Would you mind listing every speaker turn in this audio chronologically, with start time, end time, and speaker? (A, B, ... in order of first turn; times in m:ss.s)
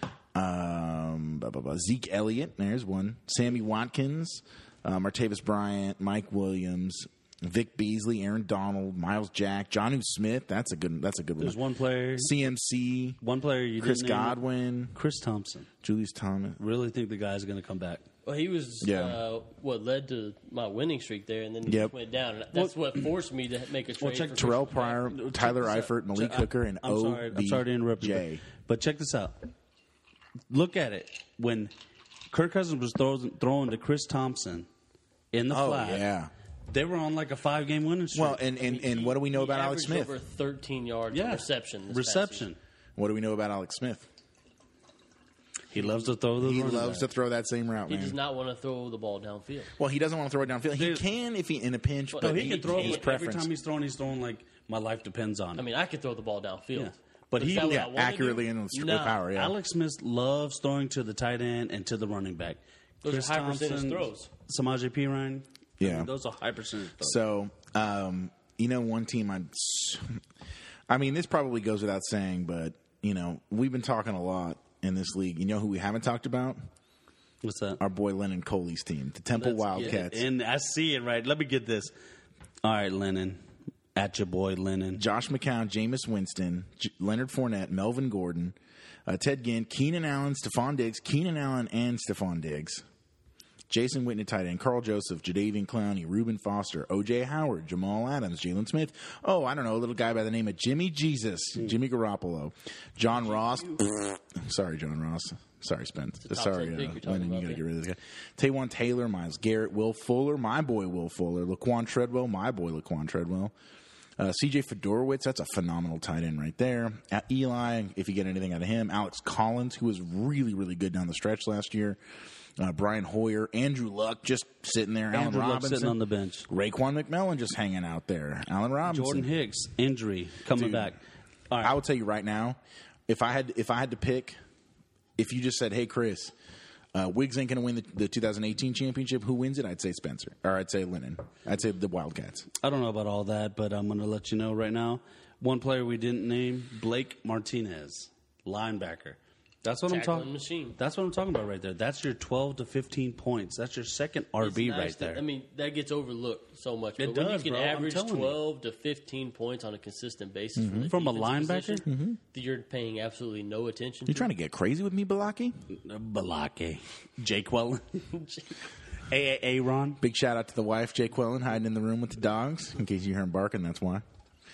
0:00.3-0:11.6 A
0:11.4-0:12.4 B
0:12.2-0:13.2 A
0:13.2-0:14.4 B
0:13.8-0:14.9 A
0:14.9-0:15.7 B
0:15.8-0:16.6 A
0:16.6-0:18.0 B
0:18.2-0:25.0 C
0:18.8-0:19.2 A
0:21.6-0:21.9 A
0:22.5-0:23.0 B
0:24.0-0:29.4 B
0:24.4-0:28.4 A
0:30.5-0:31.7 B
0:32.3-0:34.7 B
0:35.3-0:36.1 B
0:35.5-0:36.3 A
0:36.7-0:38.4 B
0:38.1-0:40.1 A
0:38.6-0:42.5 C
0:41.1-0:42.6 B
0:43.0-0:44.1 A
0:45.7-0:47.1 B
0:46.4-0:48.2 A
0:47.9-0:49.7 C
0:49.8-0:53.5 A
0:50.8-0:51.0 B
0:52.1-0:53.1 C
0:52.2-0:55.6 B
0:55.6-0:59.2 C
0:56.8-0:57.8 B
0:57.4-0:59.6 A
0:59.3-1:07.2 B
1:03.0-1:04.3 C
1:05.8-1:06.1 A
1:07.0-1:10.2 A
1:10.9-1:16.6 A
1:17.4-1:17.8 B
1:17.8-1:20.2 A
1:19.3-1:21.9 B
1:22.6-1:23.4 B
1:23.9-1:25.0 B
1:25.0-1:32.8 A
1:33.7-1:53.5 A
1:46.2-1:47.6 C
1:54.2-2:02.0 A
2:02.6-2:09.3 A
2:05.1-2:06.5 B
2:08.8-2:11.8 B
2:10.5-2:10.9 A
2:11.6-2:14.4 A
2:15.2-2:16.3 A
2:16.9-2:22.5 A
2:22.6-2:35.2 B
2:29.9-2:30.8 C
2:34.4-2:44.3 C
2:37.0-2:38.4 B
2:40.6-2:40.9 A
2:40.9-2:41.8 B
2:41.8-2:42.2 A
2:44.1-2:45.6 A
2:45.7-2:48.2 B
2:49.1-2:50.0 B
2:50.0-2:54.0 A